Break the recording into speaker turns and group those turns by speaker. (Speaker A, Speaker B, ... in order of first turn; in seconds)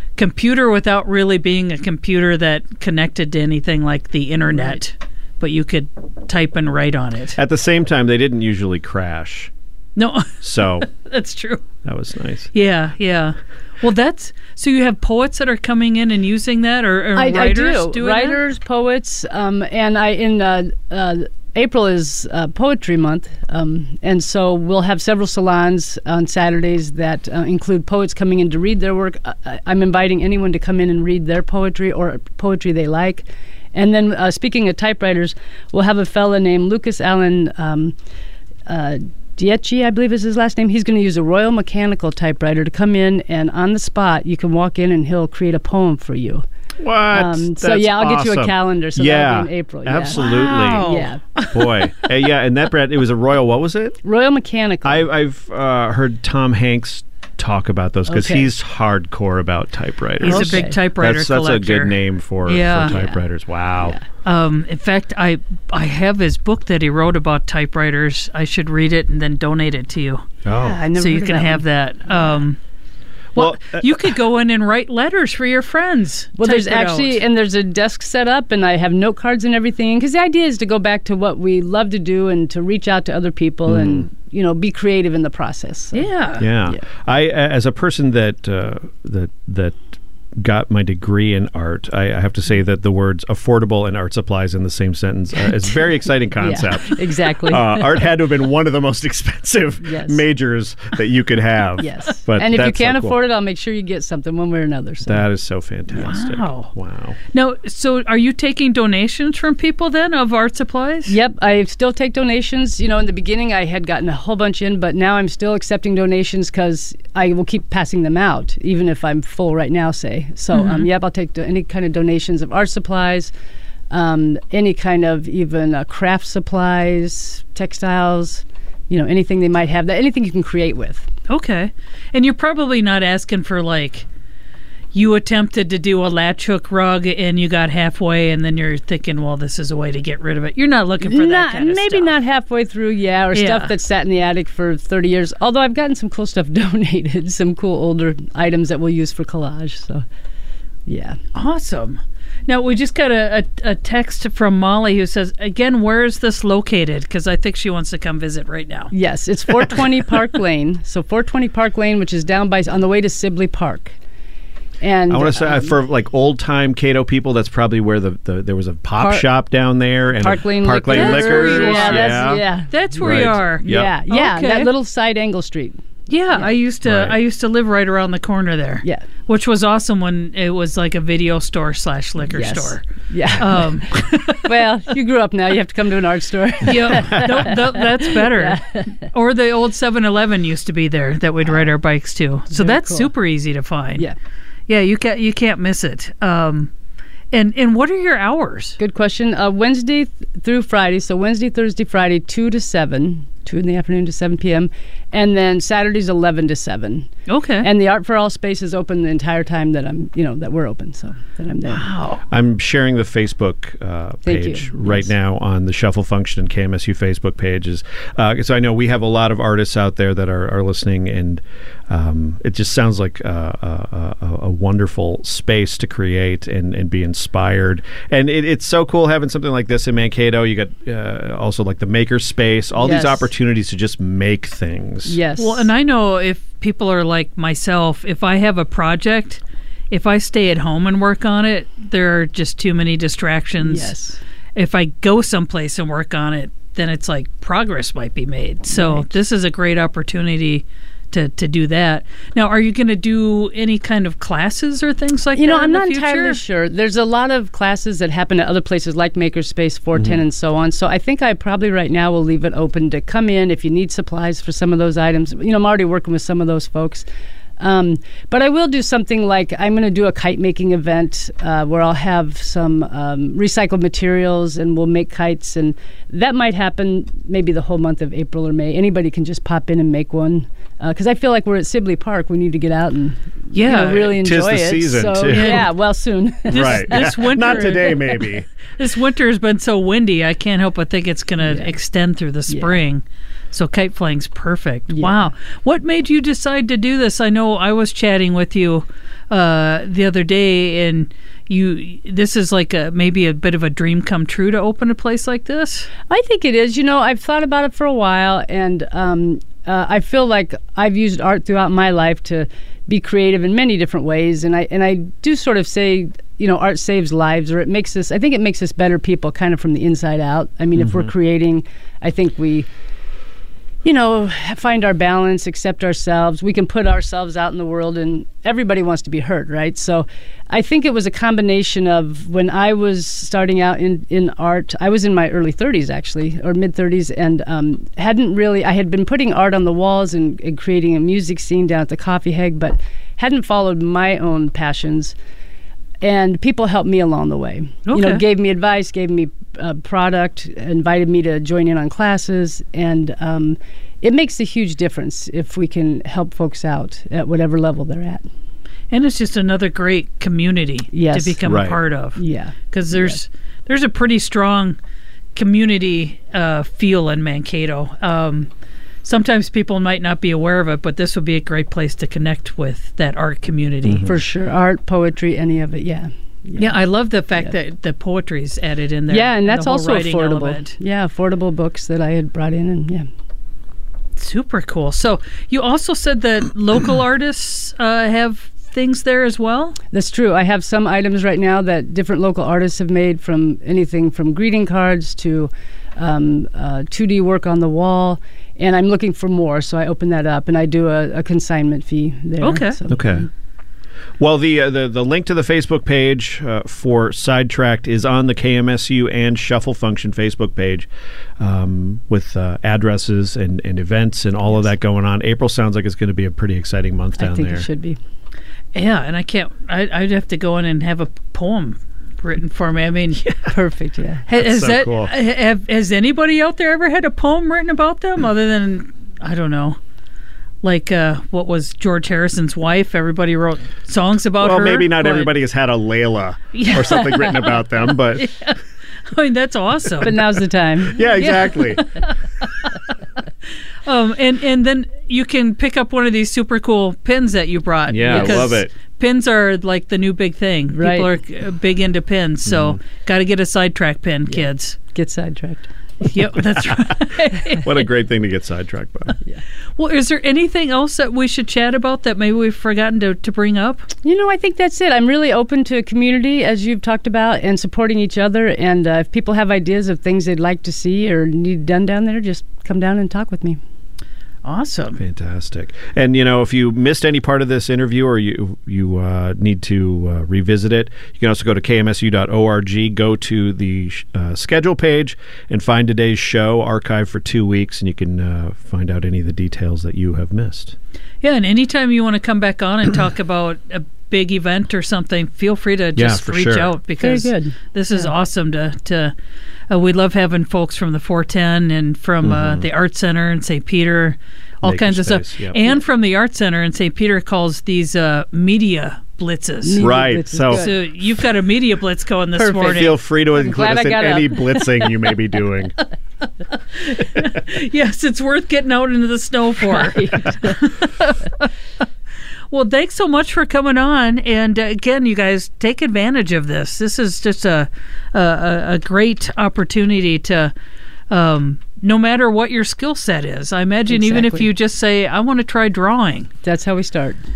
Speaker A: 0.2-7.4, 10.0-11.6, 12.5-18.4, 50.1-51.9, 60.2-61.9, 62.5-63.0, 64.2-70.3, 70.9-72.6, 73.3-77.2, 85.9-86.5, 105.9-106.7, 107.3-111.2, 120.5-120.8, 131.3-134.1, 134.9-142.2, 143.3-143.7, 151.3-158.9, 170.8-174.7, 176.1-182.8, 183.3-184.6, 186.6-194.1, 194.7-196.7, 197.3-198.8, 207.3-207.7, 211.7-212.2, 235.4-243.9, 244.5-256.4, 283.5-284.2, 285.3-285.7, 286.5-305.9, 347.9-348.2, 358.9-364.8, 365.4-368.5, 369.0-374.1, 376.6-380.8, 384.1-389.8, 402.4-402.8, 418.8-423.5, 424.3-429.8, 430.6-435.4, 436.5-440.2, 441.1-442.7, 443.9-454.8, 456.0-457.9, 459.8-463.9, 474.4-475.0, 491.2-499.1, 499.7-509.9, 510.5-513.0, 516.5-521.5, 522.5-530.5, 531.1-536.3
Speaker B: 4.5-4.8, 17.1-38.0, 38.7-46.4, 47.1-51.2, 54.0-55.1, 58.1-58.5, 60.2-60.8, 62.9-63.2, 70.6-71.7, 76.3-86.1, 96.3-98.0, 99.8-100.2, 101.8-105.2, 111.1-123.3, 123.9-131.1, 141.0-150.0, 150.9-151.2, 158.9-164.0, 164.8-165.8, 169.0-169.3, 170.2-175.8, 182.2-183.9, 184.4-189.1, 192.5-193.1, 198.8-207.1, 207.6-211.8, 214.2-215.1, 232.8-233.3, 235.1-235.7, 243.6-244.2, 248.7-249.1, 255.3-267.1, 267.6-287.8, 291.4-291.7, 292.5-292.8, 294.9-295.3, 306.1-322.7, 323.8-345.1, 346.0-358.2, 360.9-361.4, 362.1-363.2, 374.1-376.8, 379.1-383.1, 389.9-403.3, 417.2-418.0, 423.5-424.3, 440.0-441.0, 448.1-448.6, 450.7-451.1, 454.3-455.7, 464.0-473.6, 497.0-498.1, 509.6-510.8, 512.4-514.7, 519.8-520.5, 533.9-534.5, 536.4-537.2
Speaker C: 7.4-9.5, 10.4-10.9, 11.8-12.5, 46.8-50.9, 51.5-54.0, 54.8-64.0, 70.5-70.8, 73.3-74.2, 83.7-84.0, 86.4-103.2, 105.0-107.2, 165.1-172.4, 173.0-173.9, 176.8-177.2, 187.0-187.4, 212.3-235.2, 284.0-285.7, 286.5-288.5, 320.8-321.1, 361.4-361.8, 373.8-374.2, 402.9-403.3, 404.2-410.9, 411.4-417.6, 424.4-425.1, 434.4-438.3, 440.8-441.9, 447.9-448.7, 452.4-452.8, 457.5-459.2, 475.0-490.8, 495.9-496.7, 502.2-502.6, 504.6-505.6, 509.8-510.7, 512.6-515.8